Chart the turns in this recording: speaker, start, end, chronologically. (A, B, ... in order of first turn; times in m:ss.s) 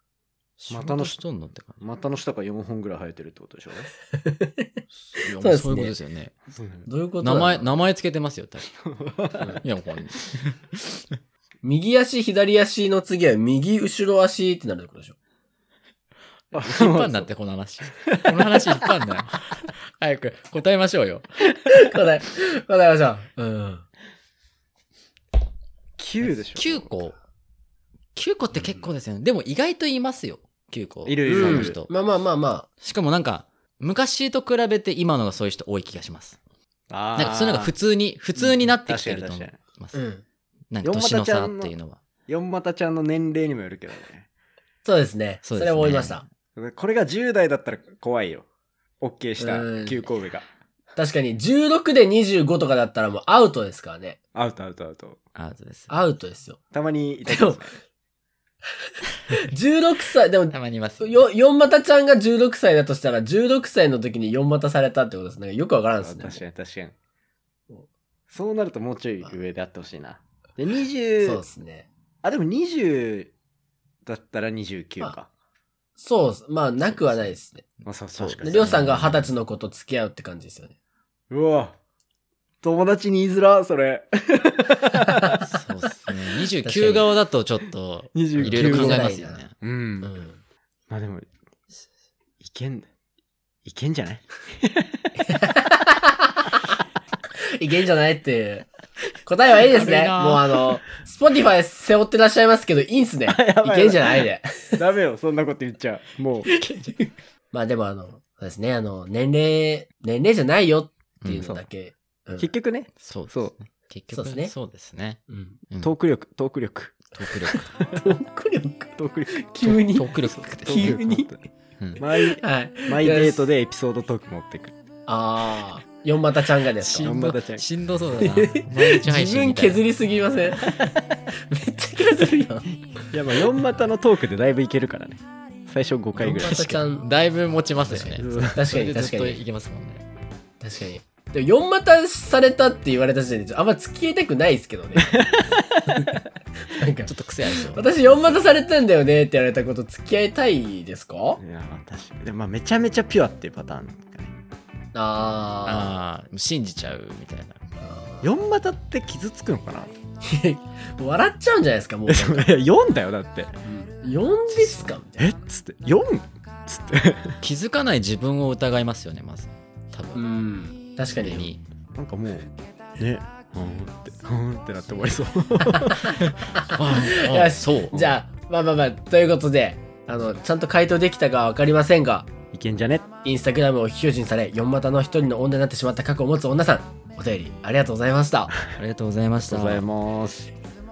0:00.6-0:01.8 A
0:00.7-0:01.2 B
0:01.8-0:03.9 B
0:04.1-0:04.7 C
0:05.1-0:06.3 A
0:05.4-0:05.9 C
0:06.5-0:06.9 B
0:06.9-0:07.8 C
0:07.2-0:08.8 A
0:08.9-0:09.6 B
0:09.6-0:10.8 A
0:11.6-0:15.2 C
0:16.5-0:17.3 B
0:16.6-0:21.2 A
0:18.1-0:18.6 B
0:21.7-0:23.8 C
0:26.0-0:26.9 B
0:26.6-0:27.2 A
0:28.2-0:31.9 A
0:31.1-0:31.8 B
0:31.2-0:32.7 C
0:32.8-0:36.4 A
0:36.9-0:37.7 B
0:37.2-0:40.0 A
0:38.4-0:39.6 B
0:39.9-0:40.2 C
0:40.7-0:42.0 A
0:40.8-0:41.7 B
0:42.3-0:44.3 B
0:44.8-0:46.2 C
0:45.4-0:46.2 A
0:46.6-0:48.5 B
0:49.0-0:50.5 B
0:49.4-0:50.1 C
0:51.0-0:54.2 C
0:54.4-0:55.2 B
0:55.4-0:55.9 A
0:55.9-0:56.6 C
0:56.7-0:57.7 B
0:57.3-0:57.7 C
0:59.3-1:06.4 C
1:00.5-1:01.2 A
1:06.0-1:06.9 B
1:08.3-1:11.4 B
1:11.2-1:11.9 C
1:12.2-1:13.3 B
1:14.1-1:15.3 B
1:16.0-1:17.6 C
1:16.8-1:17.4 A
1:17.9-1:18.7 B
1:18.1-1:19.3 A
1:18.4-1:20.8 C
1:21.3-1:21.8 B
1:22.6-1:25.4 B
1:25.4-1:29.5 A
1:26.6-1:27.1 C
1:28.2-1:30.1 B
1:28.4-1:29.4 C
1:30.0-1:30.4 C
1:30.9-1:31.3 B
1:32.4-1:32.9 B
1:33.6-1:35.2 B
1:35.2-1:36.5 C
1:37.6-1:38.7 C
1:39.3-1:44.8 C
1:39.6-1:40.7 A
1:43.3-1:46.5 B
1:46.8-1:52.5 C
1:51.2-1:51.5 A
1:51.4-1:51.6 B
1:52.4-1:53.5 B
1:53.0-1:55.9 A
1:54.1-1:54.5 C
1:55.3-1:55.6 C
1:55.8-1:57.1 B
1:57.1-1:57.8 A
1:57.5-2:01.3 C
1:59.0-1:59.6 B
1:59.6-2:01.0 A
2:00.4-2:01.4 B
2:02.0-2:04.8 B
2:02.2-2:03.4 C
2:05.1-2:07.1 C
2:06.8-2:09.8 A
2:07.0-2:07.6 B
2:08.2-2:10.9 C
2:11.5-2:12.8 C
2:13.1-2:16.7 B
2:16.2-2:17.1 C
2:16.4-2:20.0 A
2:17.9-2:19.4 C
2:18.1-2:18.6 B
2:20.6-2:25.3 C
2:25.0-2:25.8 B
2:25.9-2:31.4 C
2:27.0-2:28.3 A
2:31.4-2:34.3 B
2:35.0-2:35.9 C
2:35.6-2:37.6 A
2:37.8-2:38.3 C
2:38.2-2:39.9 B
2:40.2-2:42.6 C
2:42.1-2:43.6 B
2:43.6-2:45.3 C
2:44.5-2:45.0 A
2:45.2-2:47.4 B
2:47.4-2:50.2 A
2:50.1-2:51.5 C
2:51.2-2:51.6 A
2:51.9-2:56.2 B
2:55.7-3:02.3 C
2:56.0-2:58.2 A
3:02.5-3:03.0 B
3:03.2-3:08.5 C
3:08.7-3:09.8 A
3:09.5-3:10.5 B